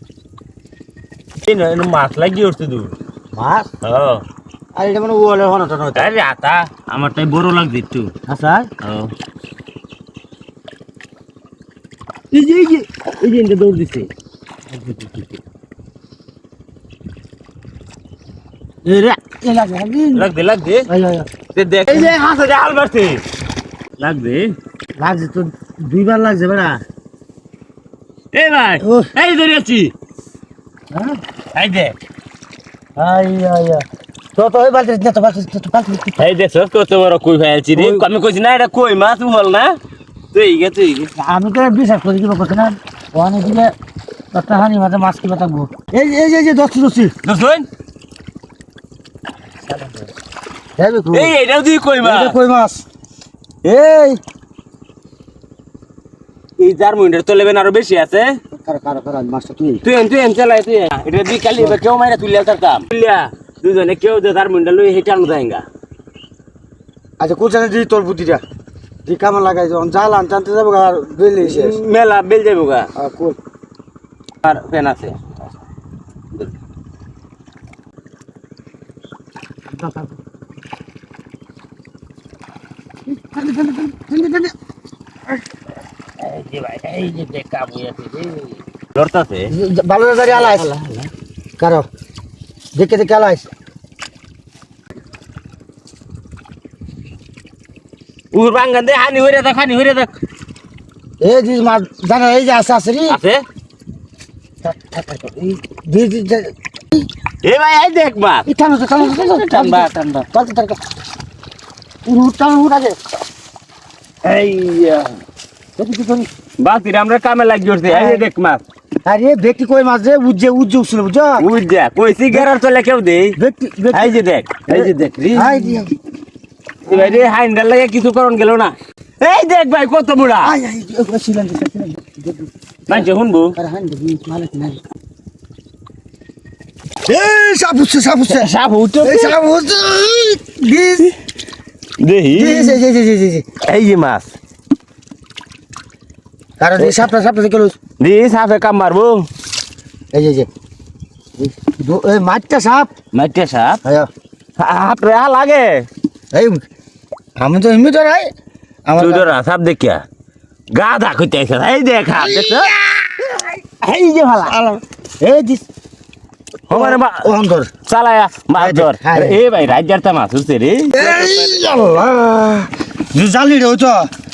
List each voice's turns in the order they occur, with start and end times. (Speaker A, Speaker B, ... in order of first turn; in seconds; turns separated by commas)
Speaker A: 1.4-2.9, Speaker B: 3.3-3.7, Speaker A: 3.8-4.2, Speaker B: 4.8-6.1, Speaker A: 6.0-8.1, Speaker B: 8.3-8.7, Speaker A: 8.8-9.1, Speaker A: 12.3-14.1, Speaker A: 14.9-15.2, Speaker B: 18.9-20.3, Speaker A: 20.1-20.9, Speaker B: 20.9-21.3, Speaker A: 21.6-23.2, Speaker B: 21.9-22.2, Speaker A: 24.0-24.6, Speaker B: 25.0-26.8, Speaker A: 28.3-29.9, Speaker B: 28.8-29.1, Speaker B: 30.9-31.2, Speaker A: 31.5-31.9, Speaker B: 33.0-36.2, Speaker A: 36.2-39.8, Speaker B: 37.7-38.0, Speaker A: 40.3-41.1, Speaker B: 41.2-43.7, Speaker B: 44.3-47.1, Speaker A: 47.2-47.7, Speaker B: 50.8-51.3, Speaker A: 51.1-52.4, Speaker B: 52.0-52.8, Speaker B: 53.6-54.2, Speaker A: 56.6-58.4, Speaker B: 58.5-59.8, Speaker A: 59.8-65.7, Speaker B: 67.2-68.4, Speaker B: 69.0-71.8, Speaker A: 71.4-72.9, Speaker B: 73.0-73.4, Speaker A: 74.4-75.5, Speaker B: 79.7-80.1, Speaker B: 83.1-84.5, Speaker A: 86.2-89.5, Speaker B: 89.5-90.7, Speaker A: 90.3-91.1, Speaker B: 91.6-91.9, Speaker B: 92.7-93.5, Speaker A: 98.3-100.1, Speaker B: 101.2-103.2, Speaker A: 103.1-103.4, Speaker B: 104.6-107.1, Speaker A: 107.4-110.3, Speaker B: 108.5-110.8, Speaker B: 112.0-113.0, Speaker A: 114.2-115.2, Speaker B: 115.8-116.3, Speaker A: 116.6-118.6, Speaker B: 117.9-118.3, Speaker B: 119.0-121.5, Speaker A: 121.4-123.4, Speaker B: 123.4-126.0, Speaker A: 123.9-125.8, Speaker A: 126.9-130.6, Speaker B: 126.9-127.3, Speaker B: 130.4-134.8, Speaker A: 132.9-133.6, Speaker B: 137.1-141.1, Speaker A: 138.3-139.4, Speaker A: 142.0-142.8, Speaker B: 142.3-143.4, Speaker A: 143.6-144.3, Speaker B: 146.6-147.8, Speaker A: 146.8-147.1, Speaker A: 148.0-149.3, Speaker B: 150.1-150.5, Speaker B: 151.4-152.9, Speaker A: 153.1-153.8, Speaker B: 153.8-154.1, Speaker A: 154.6-155.9, Speaker B: 156.3-156.6, Speaker B: 157.4-158.3, Speaker B: 158.9-159.4, Speaker A: 159.0-160.0, Speaker A: 160.7-162.7, Speaker B: 162.2-163.5, Speaker A: 163.8-164.6, Speaker B: 164.4-165.7, Speaker A: 166.7-167.3, Speaker B: 166.7-167.7, Speaker A: 167.9-171.5, Speaker B: 168.6-169.4, Speaker B: 170.9-174.1